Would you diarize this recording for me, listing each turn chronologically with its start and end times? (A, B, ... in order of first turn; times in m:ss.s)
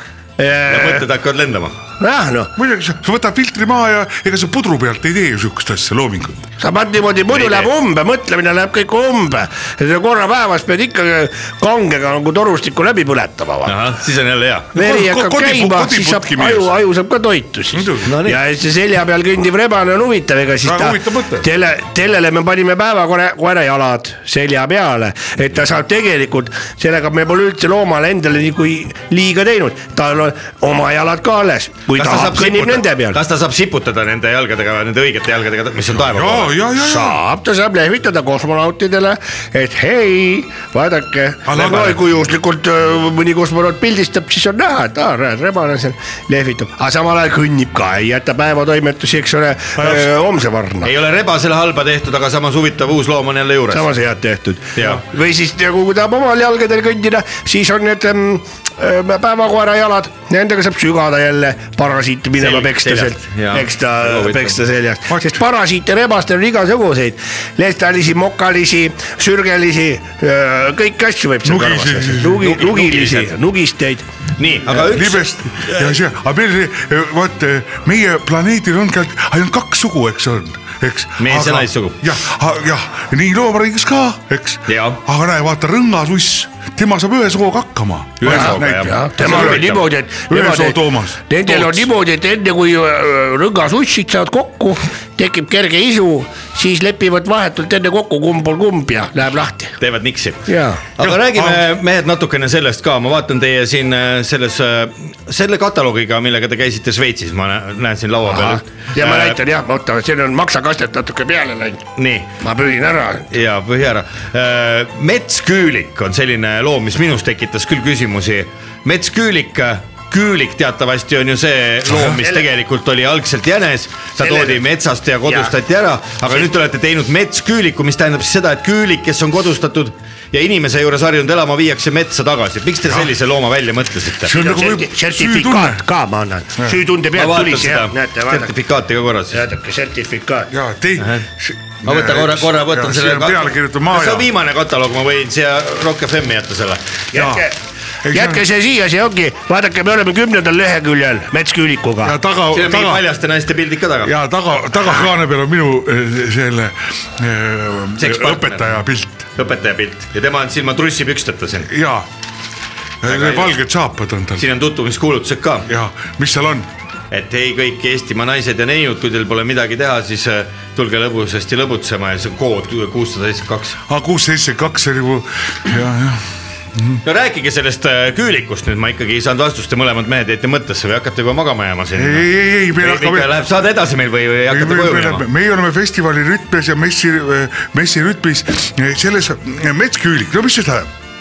0:00.4-0:01.1 A
0:00.6-0:01.7 B
0:02.0-0:02.5 A
0:02.6-0:06.5 C
0:06.6-0:13.8 A
0:07.3-0:07.7 B
0:13.6-0:14.7 B
0:14.7-0:33.2 A
0:14.7-0:16.7 C
0:17.7-0:18.1 C
0:18.0-0:18.4 B
0:20.6-0:21.5 C
0:31.9-0:36.6 B
0:35.9-0:37.2 C
0:36.8-0:50.9 A
0:41.4-0:42.0 C
0:49.8-0:50.1 C
0:50.8-0:53.9 B
0:53.7-1:14.0 A
0:54.7-0:55.0 B
1:02.4-1:04.6 B
1:05.1-1:05.4 C
1:11.4-1:12.5 C
1:12.4-1:13.3 B
1:14.4-1:16.0 B
1:14.7-1:29.8 C
1:21.2-1:22.0 B
1:24.7-1:25.0 B
1:28.2-1:29.8 B
1:28.2-1:39.8 A
1:30.3-1:31.8 C
1:39.8-1:49.4 B
1:40.5-1:40.8 A
1:41.0-1:41.6 C
1:48.3-1:51.8 A
1:52.0-1:52.3 B
1:52.4-1:53.3 A
1:53.3-2:14.3 B
2:02.0-2:02.5 A
2:04.2-2:04.6 A
2:05.2-2:05.5 A
2:14.2-2:15.8 C
2:14.3-2:18.5 A
2:17.1-2:19.4 B
2:19.3-2:20.5 A
2:20.5-2:24.3 C
2:21.0-2:21.2 B
2:21.8-2:27.0 B
2:27.1-2:27.5 A
2:27.1-2:27.4 C
2:28.0-2:28.4 C
2:28.1-2:32.2 A
2:32.0-2:33.0 C
2:32.5-2:34.1 B
2:34.0-2:39.3 C
2:38.0-2:38.7 B
2:39.3-2:41.7 B
2:41.7-2:42.1 C
2:43.0-2:44.5 C
2:43.0-2:43.5 B
2:44.4-2:45.7 B
2:45.7-2:46.7 C
2:47.1-2:53.8 B
2:53.9-2:57.0 C
2:57.0-3:05.2 B
3:01.9-3:03.4 C
3:04.5-3:10.9 C